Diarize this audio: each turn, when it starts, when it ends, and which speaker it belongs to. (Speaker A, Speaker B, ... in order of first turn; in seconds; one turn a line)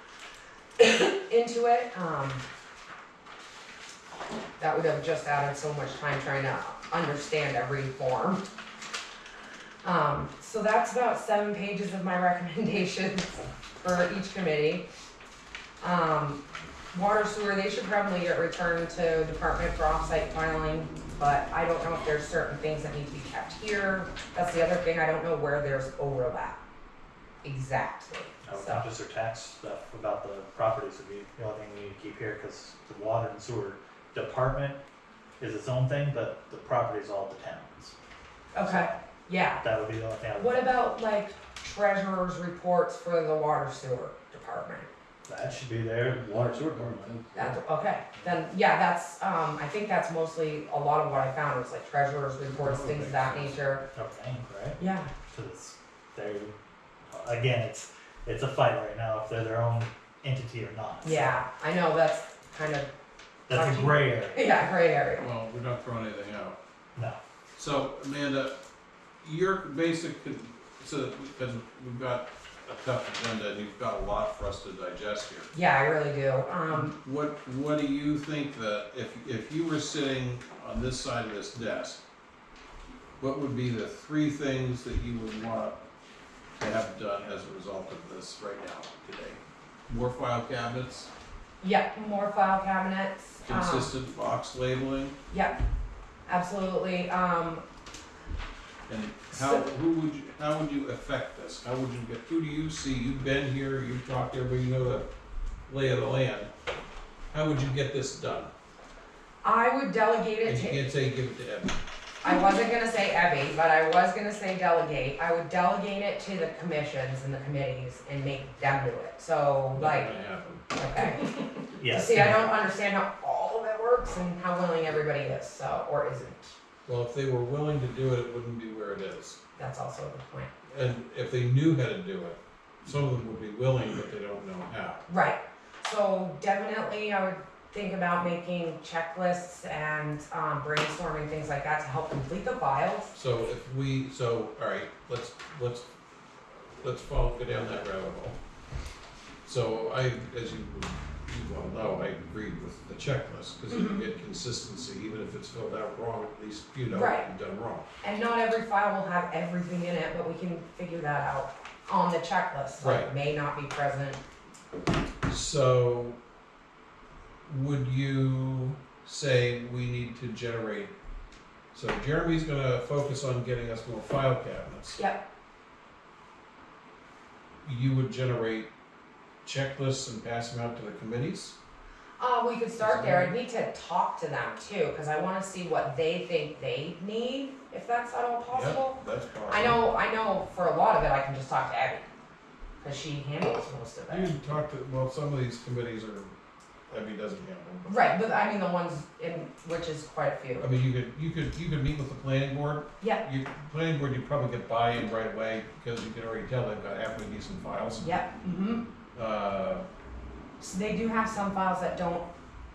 Speaker A: 0.8-2.4
Speaker A: 4.6-8.4
Speaker A: 9.8-14.8
Speaker A: 15.8-16.4
Speaker A: 16.9-26.6
Speaker A: 27.4-28.9
Speaker B: 28.4-34.8
Speaker B: 35.4-38.0
Speaker A: 38.5-39.6
Speaker B: 38.6-39.1
Speaker B: 39.6-40.7
Speaker A: 40.4-44.9
Speaker B: 45.3-47.1
Speaker C: 46.2-47.6
Speaker A: 47.4-53.8
Speaker C: 52.5-53.8
Speaker B: 54.0-56.5
Speaker A: 54.8-55.1
Speaker B: 57.1-61.3
Speaker A: 61.0-62.9
Speaker B: 63.5-64.4
Speaker A: 63.5-65.3
Speaker C: 65.2-66.6
Speaker C: 67.6-68.5
Speaker C: 69.2-75.5
Speaker A: 75.5-77.0
Speaker C: 76.7-82.0
Speaker C: 83.2-85.8
Speaker C: 86.6-91.1
Speaker A: 91.6-93.9
Speaker C: 93.5-95.2
Speaker A: 95.3-95.6
Speaker A: 96.3-97.6
Speaker C: 98.9-105.1
Speaker A: 99.3-99.6
Speaker C: 105.7-106.5
Speaker C: 107.3-108.5
Speaker A: 109.4-110.8
Speaker C: 110.4-111.8
Speaker A: 112.2-120.1
Speaker C: 119.8-120.7
Speaker A: 120.8-126.5
Speaker B: 121.8-122.6
Speaker C: 126.9-129.4
Speaker A: 129.6-130.5
Speaker C: 130.7-135.0
Speaker A: 135.1-143.1
Speaker C: 143.1-145.9
Speaker C: 146.5-148.4
Speaker C: 149.4-157.9
Speaker A: 153.7-154.0
Speaker A: 156.9-157.3
Speaker A: 158.0-164.2
Speaker C: 162.8-163.1
Speaker C: 165.3-166.2
Speaker C: 167.5-170.9
Speaker C: 171.7-175.0
Speaker A: 175.0-175.2
Speaker C: 177.6-178.7
Speaker C: 179.4-181.6
Speaker A: 182.2-192.1
Speaker C: 182.8-183.3
Speaker C: 188.5-189.8
Speaker A: 192.8-194.4
Speaker C: 194.1-196.3
Speaker C: 196.9-198.0
Speaker A: 197.9-200.7
Speaker C: 200.6-208.1
Speaker A: 208.0-208.8
Speaker C: 209.2-209.9
Speaker A: 210.6-212.3